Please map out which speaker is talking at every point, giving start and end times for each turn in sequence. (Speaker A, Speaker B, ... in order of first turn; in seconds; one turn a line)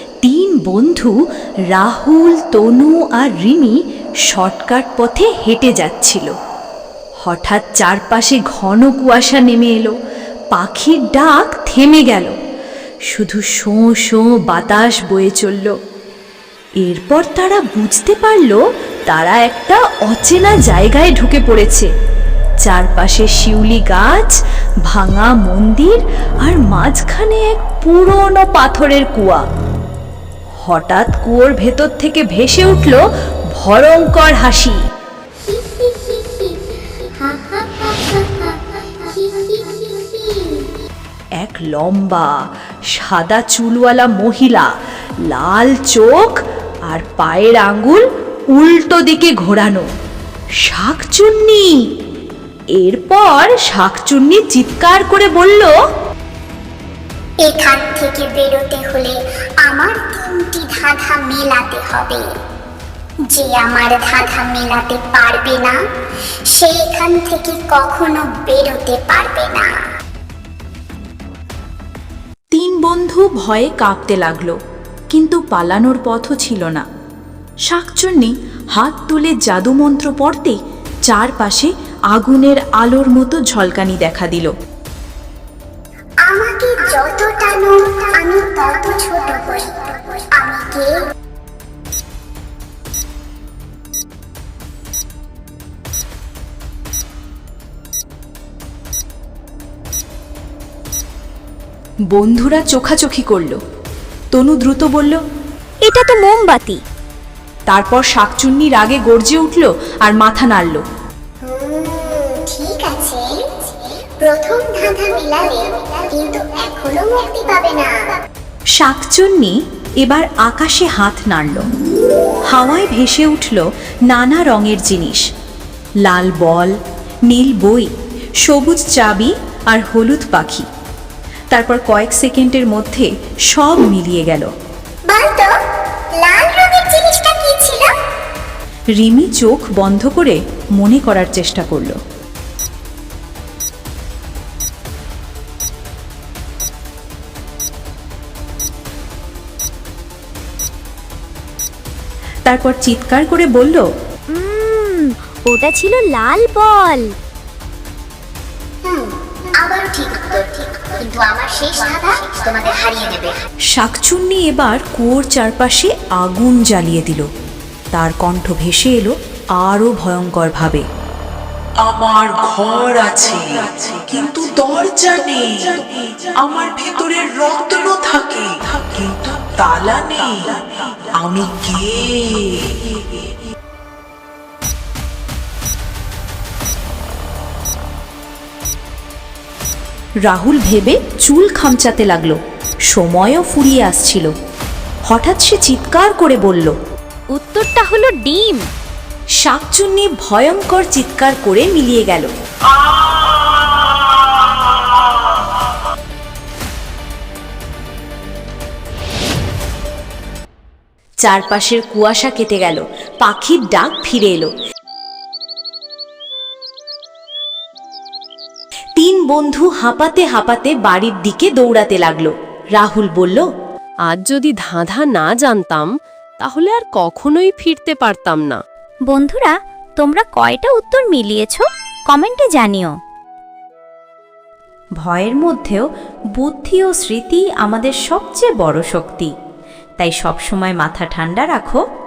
Speaker A: 0.2-1.1
Speaker A: 1.7-3.8
Speaker A: 4.3-6.3
Speaker A: 7.2-9.9
Speaker A: 10.5-12.3
Speaker A: 13.1-15.8
Speaker A: 16.8-21.9
Speaker A: 22.6-24.3
Speaker A: 24.9-29.4
Speaker A: 30.6-33.0
Speaker A: 33.5-34.8
Speaker B: 35.4-40.6
Speaker A: 41.4-42.4
Speaker A: 42.9-44.7
Speaker A: 45.3-49.9
Speaker A: 50.6-51.7
Speaker A: 52.8-55.7
Speaker B: 57.4-62.3
Speaker B: 63.3-65.8
Speaker B: 66.5-69.8
Speaker A: 72.5-74.6
Speaker A: 75.1-76.8
Speaker A: 77.7-84.5
Speaker B: 86.2-91.0
Speaker A: 102.1-103.6
Speaker A: 104.3-105.2
Speaker C: 105.9-106.8
Speaker A: 107.7-110.8
Speaker B: 111.4-118.1
Speaker A: 118.8-121.7
Speaker A: 122.5-125.2
Speaker A: 126.0-126.7
Speaker A: 127.3-127.9
Speaker A: 128.4-130.7
Speaker A: 131.5-134.5
Speaker B: 135.1-135.5
Speaker B: 136.2-137.9
Speaker A: 139.0-142.0
Speaker A: 152.5-153.8
Speaker C: 154.3-157.1
Speaker B: 158.9-163.4
Speaker A: 163.7-167.3
Speaker A: 167.9-170.8
Speaker D: 171.8-182.8
Speaker A: 190.2-192.4
Speaker A: 192.9-194.3
Speaker A: 195.1-196.7
Speaker C: 197.3-198.6
Speaker A: 199.4-202.3
Speaker A: 211.2-214.5
Speaker A: 219.0-223.4
Speaker E: 224.1-225.9
Speaker E: 226.4-228.6
Speaker C: 229.1-232.9
Speaker A: 235.0-235.8
Speaker A: 236.4-239.3
Speaker A: 240.0-241.8